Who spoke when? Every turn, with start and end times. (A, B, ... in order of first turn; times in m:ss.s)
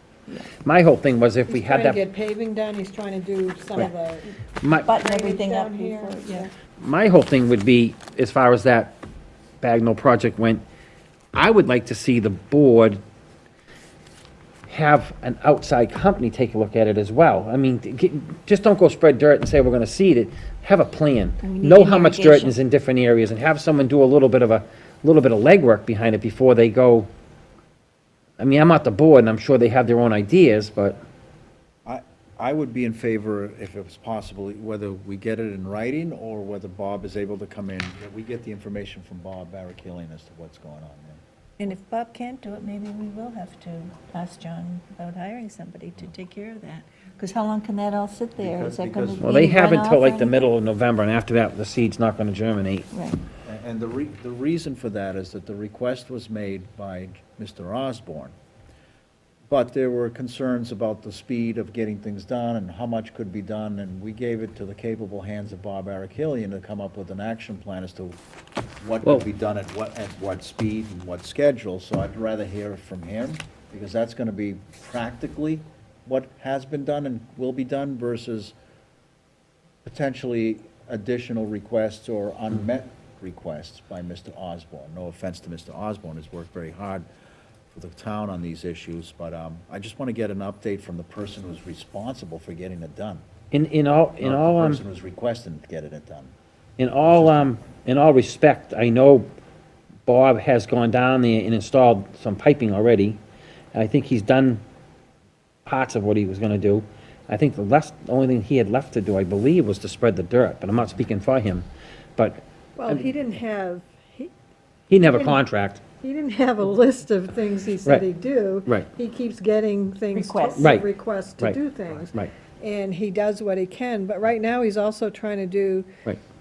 0:00.3-0:00.5 A
0:00.6-0:02.0 B
0:01.5-0:06.5 C
0:04.6-0:05.0 B
0:04.8-0:06.5 A
0:06.8-0:09.0 B
0:09.6-0:10.6 B
0:11.3-0:13.0 B
0:14.7-0:27.1 B
0:21.4-0:22.6 A
0:28.4-0:31.0 B
0:31.8-0:41.2 D
0:41.6-0:50.5 A
0:48.4-0:49.4 D
0:49.2-0:52.9 B
0:52.9-0:53.2 A
0:53.4-0:58.3 D
0:59.5-1:08.2 D
1:08.8-1:18.5 D
1:19.8-1:27.1 D
1:27.7-1:33.2 D
1:33.5-1:34.8 B
1:34.2-1:36.3 D
1:36.8-1:39.3 B
1:40.0-1:43.2 B
1:43.7-1:44.6 B
1:45.6-1:53.1 B
1:52.8-1:54.3 C
1:54.9-1:55.8 B
1:55.0-1:55.4 C
1:56.0-2:05.9 C
2:00.1-2:00.8 A
2:00.6-2:00.9 B